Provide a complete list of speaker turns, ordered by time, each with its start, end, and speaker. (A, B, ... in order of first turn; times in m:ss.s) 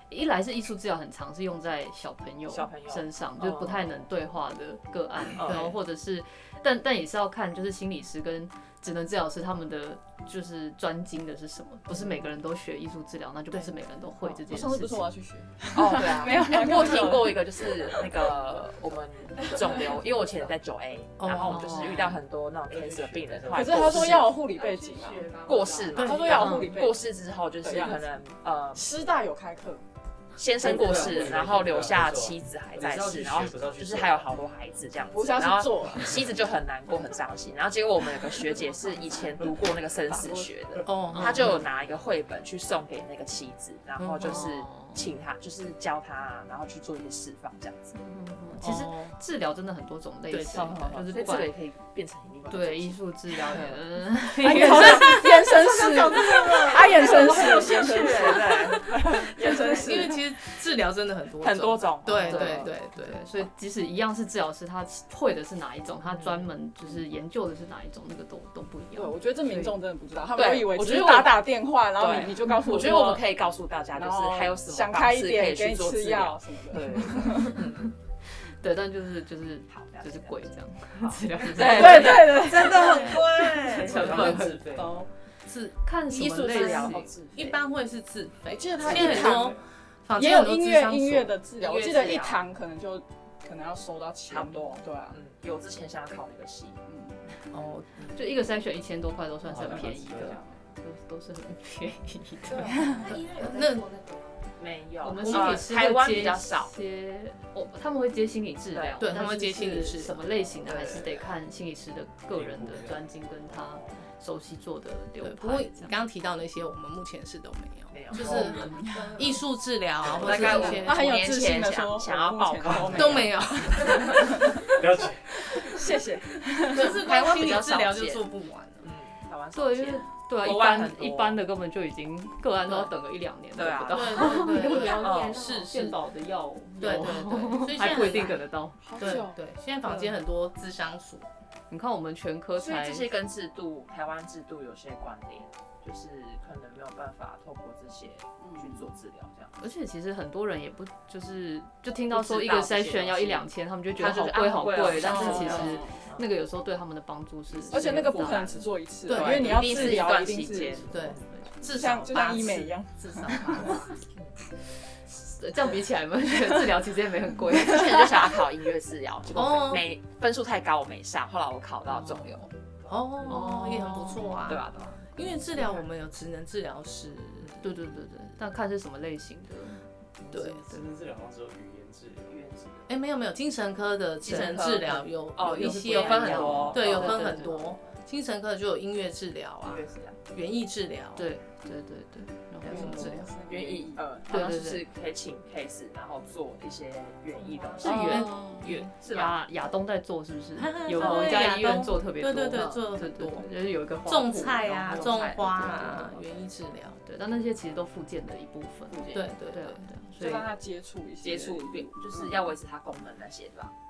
0:00.1-0:15.0 A
0:02.5-0:04.0 B
0:05.4-0:05.7 B
0:05.4-0:05.8 C
0:14.2-0:18.4 D
0:15.7-0:28.9 B
0:19.4-0:20.3 D
0:21.2-0:21.8 C
0:21.5-0:22.2 A
0:22.7-0:24.2 E
0:23.5-0:27.0 D
0:25.9-0:26.5 C
0:26.3-0:26.8 A
0:27.6-0:28.2 D
0:28.8-0:29.8 D
0:30.4-0:48.0 B
0:30.6-0:31.4 D
0:30.6-0:34.3 E
0:35.1-0:36.2 D
0:40.1-0:40.5 D
0:40.8-0:41.7 C
0:41.1-0:41.6 A
0:44.0-0:44.5 C
0:44.2-0:45.1 A
0:48.0-0:51.5 A
0:48.6-0:49.2 C
0:50.3-0:53.8 B
0:52.5-0:55.5 A
0:54.4-1:00.2 D
0:54.4-1:00.2 B
0:59.6-1:03.5 C
1:01.4-1:02.7 B
1:02.2-1:09.8 A
1:06.1-1:06.5 B
1:09.0-1:13.2 D
1:10.4-1:17.9 B
1:14.0-1:17.6 D
1:16.8-1:17.0 E
1:17.2-1:24.5 A
1:19.7-1:24.9 B
1:21.6-1:23.2 D
1:22.8-1:23.1 C
1:23.1-1:25.0 E
1:24.1-1:24.4 D
1:25.5-1:31.4 C
1:25.8-1:27.1 A
1:26.1-1:27.6 B
1:28.5-1:29.6 D
1:28.8-1:29.5 B
1:30.2-1:35.2 D
1:31.6-1:32.4 B
1:34.3-1:36.8 B
1:36.9-1:37.2 D
1:37.5-1:37.9 C
1:37.9-1:38.2 B
1:38.1-1:43.8 A
1:39.5-1:40.4 E
1:42.5-1:46.7 B
1:42.7-1:43.0 D
1:43.0-1:43.9 C
1:45.0-1:56.0 A
1:45.2-1:45.6 C
1:48.7-1:49.2 B
1:49.0-1:50.5 C
1:50.6-1:51.3 B
1:52.3-1:53.0 E
1:53.6-1:54.1 B
1:55.2-1:58.6 C
1:57.9-1:59.4 B
1:58.3-1:59.4 D
1:58.3-1:58.9 A
1:59.2-2:01.1 C
2:00.1-2:00.6 E
2:00.1-2:04.6 B
2:00.2-2:04.7 D
2:02.7-2:03.3 E
2:03.0-2:04.2 C
2:04.6-2:05.5 E
2:05.5-2:07.0 D
2:06.7-2:08.3 B
2:06.7-2:08.9 C
2:08.8-2:11.4 B
2:09.6-2:18.9 A
2:13.6-2:15.7 B
2:13.9-2:16.0 C
2:16.8-2:18.4 C
2:18.8-2:19.4 D
2:19.0-2:21.3 C
2:21.7-2:23.1 A
2:22.6-2:29.6 B
2:28.4-2:28.9 D
2:29.6-2:38.6 A
2:32.1-2:36.3 B
2:35.0-2:36.0 D
2:37.5-2:38.4 B
2:37.7-2:41.0 D
2:39.1-2:40.1 C
2:39.1-2:42.6 B
2:40.9-2:42.8 C
2:41.6-2:43.9 D
2:43.3-2:43.7 A
2:43.5-2:44.4 B
2:45.1-2:48.4 A
2:47.5-2:52.5 B
2:49.3-2:49.9 C
2:51.9-2:52.4 A
2:52.9-2:57.8 C
2:53.2-2:55.0 B
2:53.3-2:54.4 A
2:57.6-3:00.8 A
3:00.3-3:02.5 E
3:00.3-3:00.8 C
3:02.3-3:02.9 B
3:02.9-3:11.3 C
3:04.2-3:07.6 B
3:05.6-3:07.8 A
3:09.7-3:10.2 B
3:11.2-3:13.3 A
3:12.6-3:19.4 B
3:12.7-3:14.1 D
3:12.7-3:13.3 C
3:14.3-3:14.8 A
3:17.8-3:26.2 A
3:17.8-3:18.6 D
3:17.9-3:18.9 C
3:20.6-3:23.5 C
3:21.0-3:21.5 B
3:24.1-3:27.0 C
3:24.8-3:26.0 B
3:27.0-3:30.5 A
3:28.9-3:29.3 B
3:29.1-3:29.9 C
3:30.2-3:32.3 D
3:31.2-3:33.7 B